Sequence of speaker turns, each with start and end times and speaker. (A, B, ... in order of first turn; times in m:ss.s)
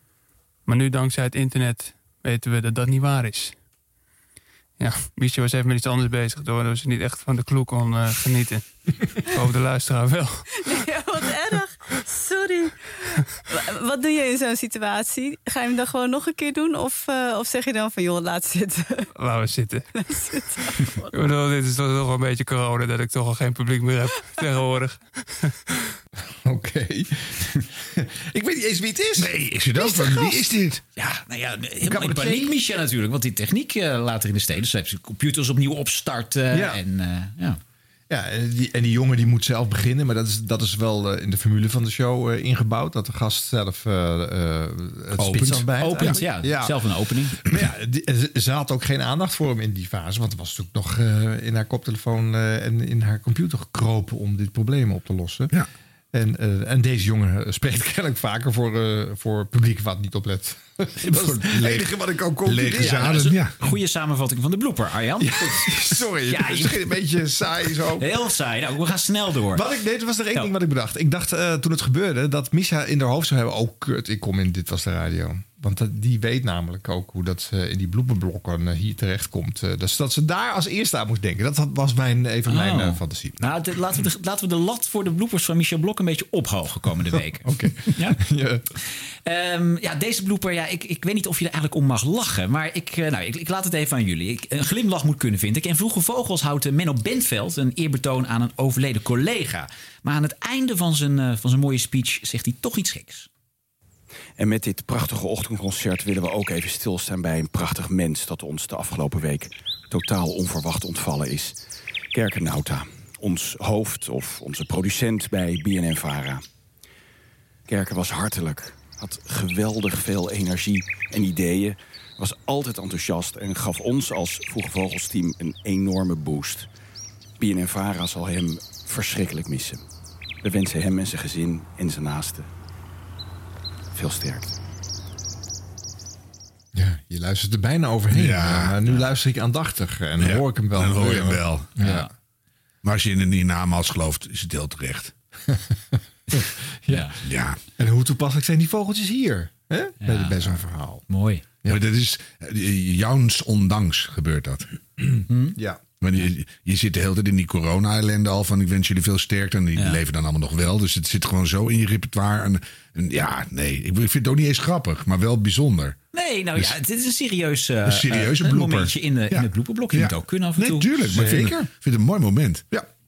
0:00.7-0:02.5 A
0:04.9-0:06.3 A
0:10.4-0:12.9 B
0:13.5-0:19.3 B
0:19.9-0:21.3 B
0:24.2-0:24.5 B
0:26.4-0:30.2 C
0:29.2-0:30.8 D
0:31.0-0:37.6 E
0:31.8-0:32.5 C
0:36.5-0:36.8 C
0:38.1-0:46.7 C
0:45.2-0:46.2 D
0:45.8-0:47.4 E
0:47.4-0:55.5 C
0:56.1-1:03.2 C
1:01.0-1:01.9 D
1:02.4-1:03.6 D
1:02.8-1:06.8 E
1:05.2-1:08.1 C
1:08.0-1:09.6 E
1:09.5-1:23.5 C
1:22.5-1:28.2 E
1:27.4-1:28.6 C
1:29.2-1:43.3 E
1:44.4-1:51.6 F
1:52.1-1:56.4 F
1:57.7-2:06.7 F
2:07.4-2:09.8 F
2:10.4-2:12.5 F
2:13.9-2:14.5 F
2:16.7-2:22.1 C
2:18.1-2:18.8 D
2:20.2-2:21.9 D
2:21.8-2:22.1 E
2:22.8-2:25.1 D
2:26.9-2:27.2 E
2:27.2-2:27.6 D
2:27.8-2:31.0 C
2:30.0-2:30.5 E
2:31.1-2:31.4 E
2:31.7-2:34.6 D
2:35.3-2:35.6 E
2:35.6-2:35.8 C
2:36.0-2:46.0 D
2:46.1-2:50.9 E
2:47.8-2:52.6 D
2:51.1-2:51.7 C